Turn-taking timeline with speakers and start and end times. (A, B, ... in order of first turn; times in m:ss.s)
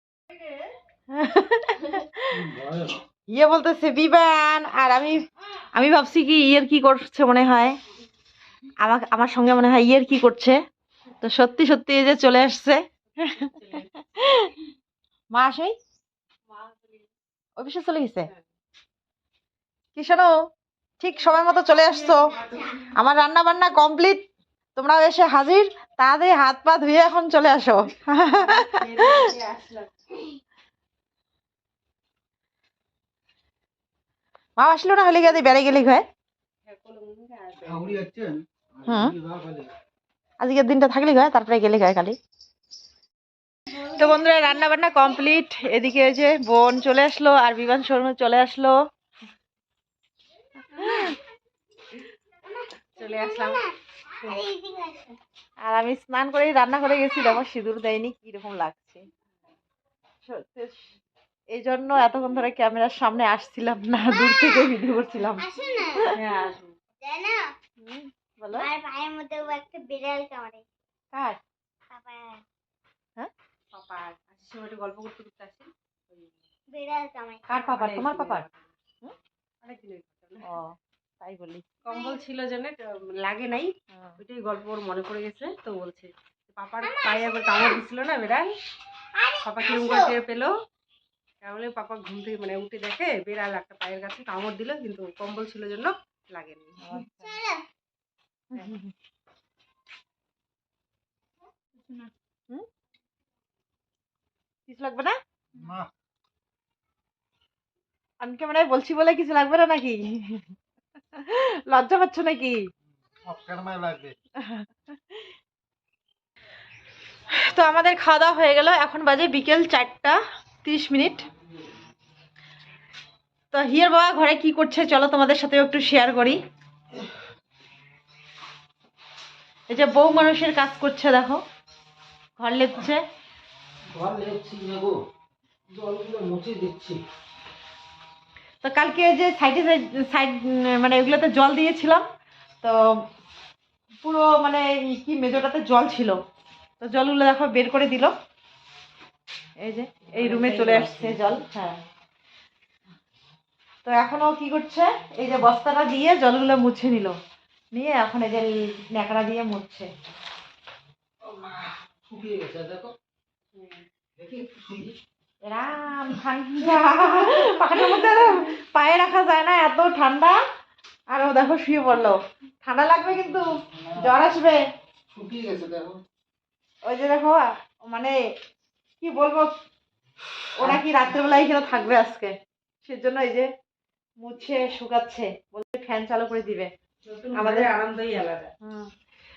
0:01.1-0:02.3 A
0:02.3-0:03.0 B
0:03.3-0:07.8 A
0:08.8-0:10.6 A
0:11.2-0:13.5 A
0:13.1-0:13.9 C
0:14.2-0:14.5 A
0:15.3-0:15.8 A
0:16.5-0:17.1 C
0:17.6-0:18.3 A
0:20.0-0:20.3 A
0:21.0-0:24.3 A
0:24.8-0:29.2 A
0:28.3-0:29.9 C
0:34.6-0:36.0 A
0:36.7-0:38.0 C
0:37.6-0:39.7 B
0:38.9-0:39.1 A
0:40.4-0:42.2 A
0:43.8-0:48.8 A
0:50.8-0:51.2 A
0:52.5-0:55.2 D
0:53.0-0:53.6 C
0:55.6-0:59.0 A
1:00.2-1:01.0 A
1:01.5-1:05.5 A
1:04.2-1:04.7 D
1:05.4-1:06.1 D
1:06.1-1:06.8 C
1:07.0-1:07.4 D
1:07.8-1:08.7 A
1:08.5-1:10.6 D
1:11.1-1:11.4 A
1:11.9-1:12.4 D
1:13.7-1:16.5 C
1:16.7-1:17.6 D
1:17.5-1:18.4 A
1:17.6-1:18.7 C
1:19.6-1:20.5 C
1:20.4-1:21.7 A
1:21.8-1:28.5 C
1:21.9-1:22.2 D
1:26.8-1:27.8 D
1:29.2-1:30.1 D
1:29.4-1:30.5 C
1:31.4-1:36.8 C
1:36.8-1:37.4 A
1:37.2-1:37.6 D
1:38.5-1:38.9 A
1:44.7-1:45.2 A
1:45.6-1:45.9 B
1:48.2-1:50.4 A
1:51.2-1:52.6 A
1:53.2-1:54.2 B
1:57.3-2:01.3 A
2:03.5-2:06.4 A
2:09.7-2:11.4 A
2:12.4-2:13.0 A
2:13.9-2:15.0 B
2:15.7-2:17.0 B
2:18.6-2:22.1 A
2:24.0-2:26.2 A
2:26.8-2:28.1 A
2:29.6-2:31.8 A
2:30.2-2:31.3 C
2:33.8-2:37.2 A
2:37.7-2:39.9 A
2:41.3-2:42.9 B
2:43.5-2:43.8 C
2:44.2-2:44.9 B
2:45.5-2:50.4 A
2:51.1-2:54.6 A
2:53.8-2:54.1 B
2:55.1-2:56.0 B
2:56.8-2:58.2 A
2:59.0-2:59.5 A
3:00.6-3:03.5 A
3:04.2-3:06.7 A
3:07.1-3:08.6 C
3:07.4-3:07.7 A